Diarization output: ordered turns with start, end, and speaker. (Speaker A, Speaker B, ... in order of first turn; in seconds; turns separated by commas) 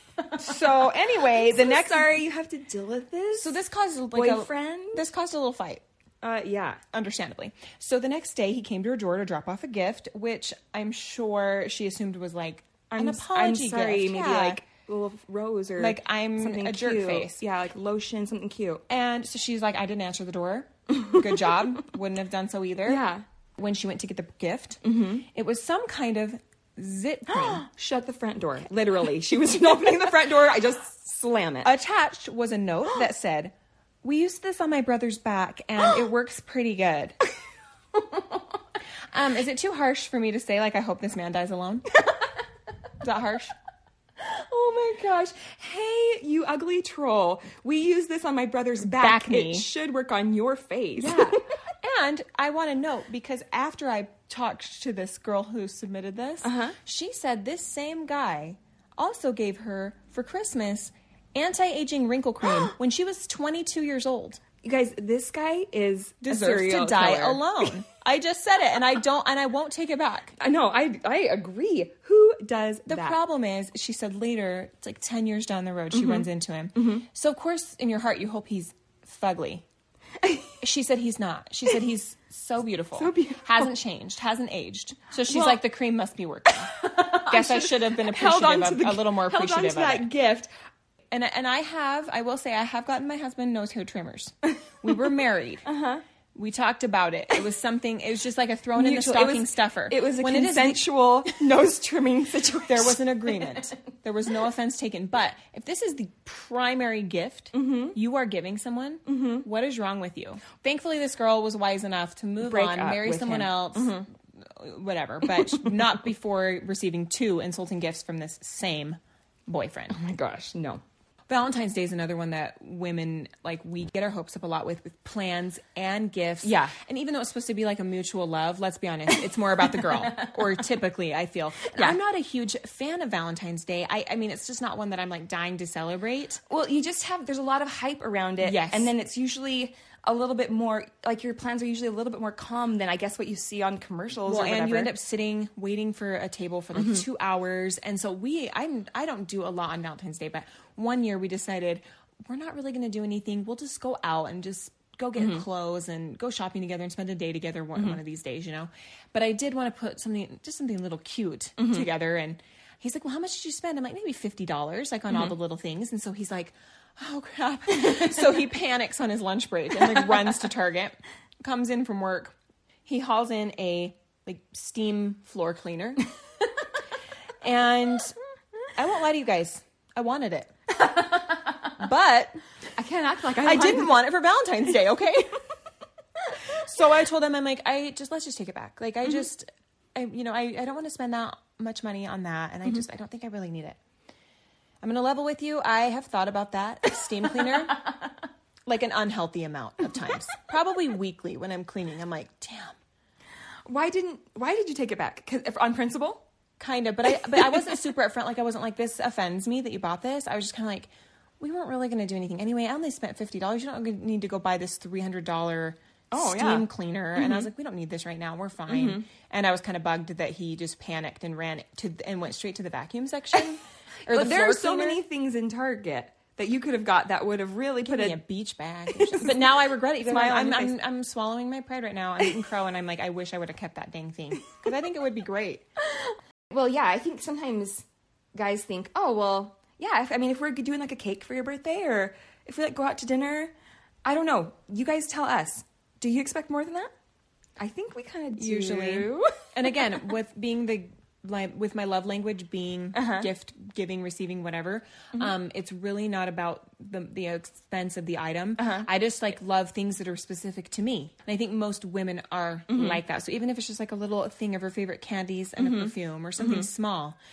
Speaker A: 0.3-3.6, Speaker B: 0.3-2.1, Speaker B: 3.3-5.8, Speaker A: 4.1-5.0, Speaker A: 6.2-6.8, Speaker B: 6.9-14.6, Speaker A: 12.9-18.8, Speaker B: 15.8-17.4, Speaker B: 18.9-23.0, Speaker A: 20.9-21.6, Speaker A: 22.9-23.2, Speaker B: 23.6-24.8, Speaker A: 24.8-25.2, Speaker B: 25.3-27.6, Speaker A: 27.3-31.7, Speaker B: 31.6-33.5, Speaker B: 34.0-37.1, Speaker A: 38.0-38.3, Speaker B: 39.1-41.9, Speaker B: 43.0-43.5, Speaker A: 44.2-51.4, Speaker B: 48.8-49.7, Speaker B: 51.0-64.4, Speaker A: 56.4-56.8, Speaker A: 64.6-67.7, Speaker B: 66.2-70.3, Speaker A: 70.4-73.2, Speaker B: 72.9-79.6, Speaker A: 75.9-77.0, Speaker A: 80.2-80.5, Speaker B: 80.6-90.1, Speaker A: 83.0-83.7, Speaker A: 85.3-85.6, Speaker A: 86.6-90.5, Speaker B: 91.1-95.7, Speaker A: 95.7-96.0, Speaker B: 96.3-100.8, Speaker A: 98.8-103.6, Speaker B: 102.7-120.0, Speaker A: 107.5-108.0, Speaker A: 109.1-109.5, Speaker A: 112.4-114.1, Speaker A: 115.3-115.7, Speaker A: 119.9-120.8, Speaker B: 121.3-136.4, Speaker A: 126.4-126.7, Speaker A: 129.7-130.4, Speaker A: 131.7-132.0, Speaker A: 136.5-144.9, Speaker B: 138.4-138.9, Speaker B: 144.3-172.3, Speaker A: 146.8-147.0, Speaker A: 155.2-155.4, Speaker A: 161.6-161.9, Speaker A: 167.8-168.3, Speaker B: 172.9-176.1, Speaker B: 177.4-178.2, Speaker B: 178.8-180.5, Speaker A: 180.8-181.7, Speaker B: 181.8-182.4, Speaker A: 182.8-184.0, Speaker B: 183.4-185.4, Speaker B: 186.5-193.8, Speaker B: 194.8-197.9, Speaker B: 198.7-202.8, Speaker A: 203.7-206.2, Speaker B: 206.6-210.9, Speaker B: 211.4-225.0, Speaker A: 216.1-217.5, Speaker A: 218.7-219.1, Speaker A: 224.1-228.2, Speaker B: 227.9-235.7, Speaker A: 228.9-230.8, Speaker A: 236.5-243.5, Speaker A: 244.1-246.9, Speaker A: 247.6-250.0, Speaker B: 248.4-267.2, Speaker A: 252.9-253.3, Speaker A: 258.6-258.9, Speaker A: 262.7-263.0, Speaker A: 265.6-266.7